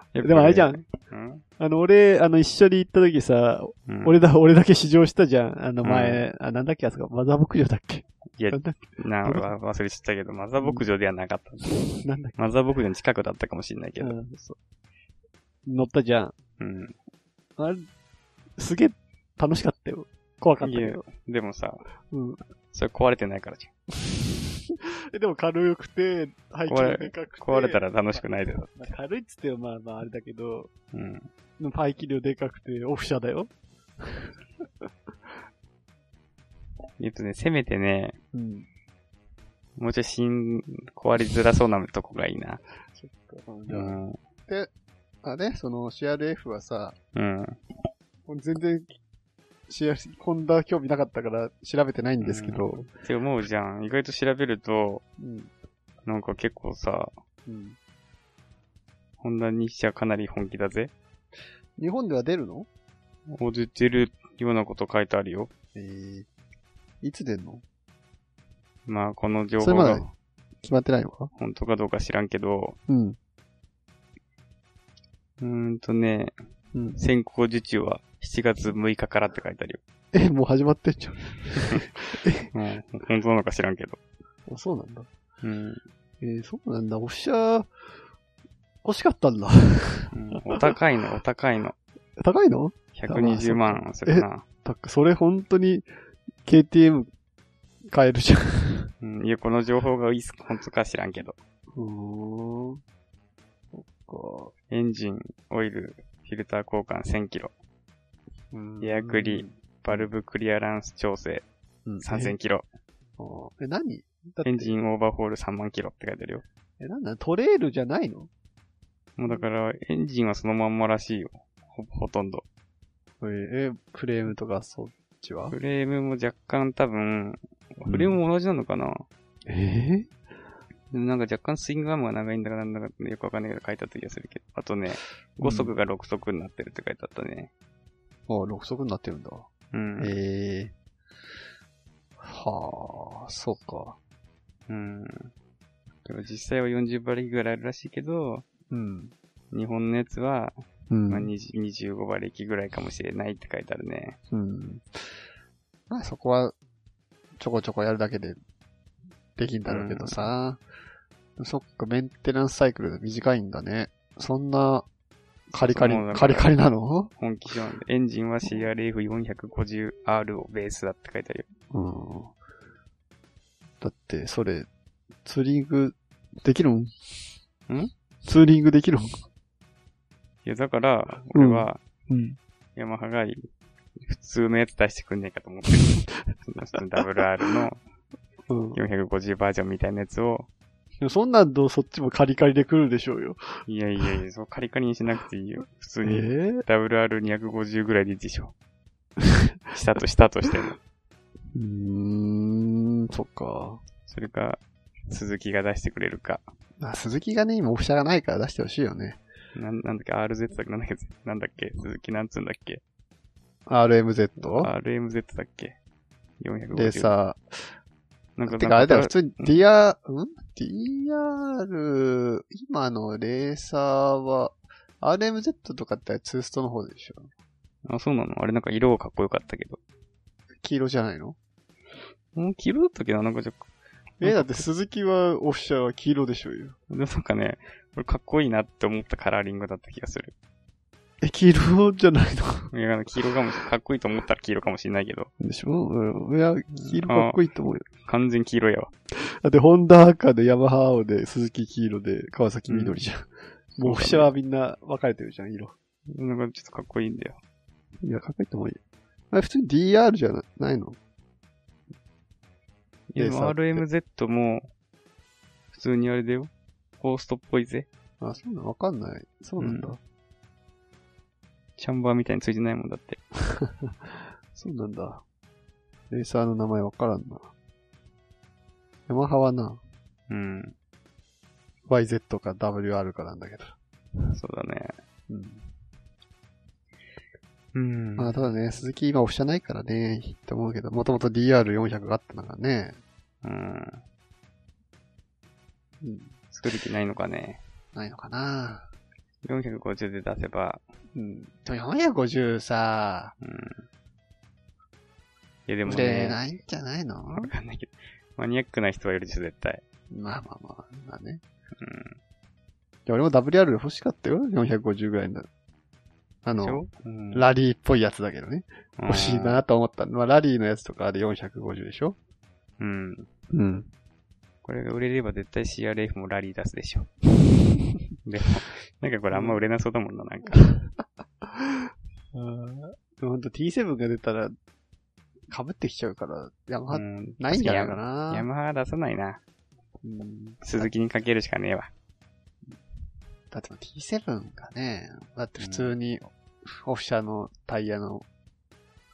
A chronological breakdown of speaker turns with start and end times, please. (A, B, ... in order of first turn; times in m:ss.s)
0:00.2-0:01.4 A
0:00.2-0:00.8 B
0:01.6-0:09.5 B
0:03.9-0:04.2 A
0:05.8-0:06.2 A
0:08.4-0:11.8 A
0:10.6-0:10.8 B
0:11.6-0:12.4 B
0:12.4-0:14.2 A
0:14.0-0:14.6 B
0:15.7-0:16.3 B
0:16.6-0:17.0 A
0:17.6-0:17.9 B
0:18.6-0:21.0 B
0:20.6-0:21.8 A
0:22.1-0:22.4 B
0:22.7-0:23.7 A
0:24.0-0:30.7 B
0:26.7-0:28.9 A
0:30.9-0:31.3 A
0:31.6-0:34.3 B
0:37.0-0:38.2 A
0:38.3-0:38.7 B
0:39.8-0:42.6 A
0:43.0-0:44.7 B
0:43.7-0:44.2 A
0:45.2-0:47.0 B
0:47.1-0:47.6 A
0:48.3-0:48.9 B
0:49.7-0:52.9 B
0:52.2-0:55.0 A
0:55.2-0:55.5 B
0:56.1-0:57.1 A
0:57.5-0:57.8 B
0:59.2-1:00.9 A
1:01.8-1:02.7 B
1:03.3-1:05.5 A
1:05.8-1:06.3 B
1:07.0-1:07.6 B
1:08.9-1:10.1 A
1:09.6-1:10.0 B
1:10.6-1:11.3 B
1:11.4-1:12.8 A
1:12.9-1:13.2 B
1:15.4-1:16.4 A
1:17.0-1:19.8 A
1:20.1-1:22.5 B
1:22.5-1:24.0 A
1:24.5-1:25.1 B
1:25.4-1:25.8 A
1:26.2-1:27.7 B
1:28.8-1:30.6 B
1:30.1-1:31.8 A
1:32.2-1:35.9 B
1:33.0-1:34.4 A
1:36.4-1:37.1 B
1:37.9-1:38.9 B
1:39.0-1:41.4 A
1:41.8-1:42.8 B
1:43.7-1:44.5 B
1:44.7-1:47.5 A
1:48.5-1:50.1 B
1:48.8-1:51.5 A
1:51.9-1:52.4 B
1:52.0-1:52.7 A
1:53.2-1:54.7 B
1:54.4-1:56.4 A
1:56.8-1:58.3 B
1:59.2-2:02.4 A
2:03.2-2:05.6 B
2:05.5-2:09.1 A
2:07.9-2:08.2 B
2:09.5-2:10.1 B
2:10.9-2:17.5 A
2:15.4-2:15.7 B
2:18.3-2:19.5 B
2:19.7-2:20.1 A
2:20.0-2:20.7 B
2:22.2-2:24.0 B
2:24.7-2:25.3 A
2:26.0-2:28.5 A
2:28.7-2:29.1 B
2:29.5-2:34.2 A
2:30.9-2:31.3 B
2:34.3-2:35.0 B
2:35.9-2:36.6 B
2:37.4-2:38.4 B
2:39.4-2:40.6 B
2:39.7-2:40.3 A
2:41.4-2:44.9 B
2:45.5-2:47.1 B
2:45.6-2:46.6 A
2:47.2-2:51.5 A
2:51.7-2:52.3 B
2:53.8-2:54.7 B
2:55.2-2:56.9 B
2:58.2-2:59.1 B
3:00.4-3:01.8 A
3:01.3-3:02.4 B
3:02.8-3:03.5 A
3:04.0-3:07.8 A
3:08.5-3:08.8 B
3:08.7-3:10.5 A
3:11.0-3:13.4 B
3:13.7-3:18.5 A
3:16.0-3:16.6 B
3:19.7-3:20.8 A
3:21.5-3:23.8 B
3:24.1-3:26.4 A
3:26.8-3:29.2 B
3:29.6-3:32.8 A
3:33.7-3:34.7 B
3:34.4-3:35.8 A
3:36.4-3:37.1 A
3:36.7-3:37.4 B
3:38.4-3:39.6 A
3:38.5-3:47.3 B
3:47.8-3:49.8 A
3:50.6-3:51.4 B
3:52.4-3:53.7 A
3:54.2-3:56.8 B
3:54.2-3:54.7 A
3:56.9-4:00.3 A
4:01.2-4:02.7 B
4:02.7-4:05.3 A
4:05.4-4:07.9 B
4:06.9-4:07.4 A
4:08.0-4:08.9 A
4:09.2-4:15.8 B
4:12.7-4:13.0 A
4:13.8-4:14.3 A
4:16.1-4:17.4 A
4:18.0-4:18.8 B
4:19.3-4:21.0 B
4:23.1-4:24.7 A
4:23.2-4:23.8 B
4:25.7-4:27.9 A
4:28.2-4:30.0 B
4:29.6-4:30.0 A
4:31.8-4:33.2 A
4:33.5-4:33.9 B
4:34.6-4:35.2 B
4:36.1-4:37.5 B
4:39.1-4:39.8 B
4:40.3-4:40.8 A
4:41.9-4:43.8 B
4:44.3-4:44.9 A
4:45.3-4:45.7 B
4:47.7-4:48.3 A
4:48.2-4:53.0 B
4:53.4-4:54.0 A
4:56.0-4:56.4 B
4:56.5-4:57.6 A
4:57.9-4:58.9 B
4:59.4-5:00.8 A
5:01.2-5:03.3 B
5:03.4-5:03.8 A
5:05.7-5:06.4 A
5:05.9-5:07.5 B
5:07.3-5:09.8 A
5:10.1-5:11.4 B
5:11.8-5:12.2 A
5:13.1-5:15.5 B
5:16.4-5:22.2 B
5:16.6-5:17.5 A
5:19.0-5:19.6 A
5:22.8-5:23.3 A
5:23.5-5:23.9 B
5:24.6-5:27.1 A
5:28.2-5:30.8 A
5:29.3-5:29.6 B
5:31.4-5:31.8 B
5:32.3-5:34.5 B
5:35.5-5:38.5 B
5:36.9-5:39.4 A
5:40.0-5:40.9 B
5:40.6-5:41.9 A
5:43.5-5:48.3 B
5:45.6-5:45.9 A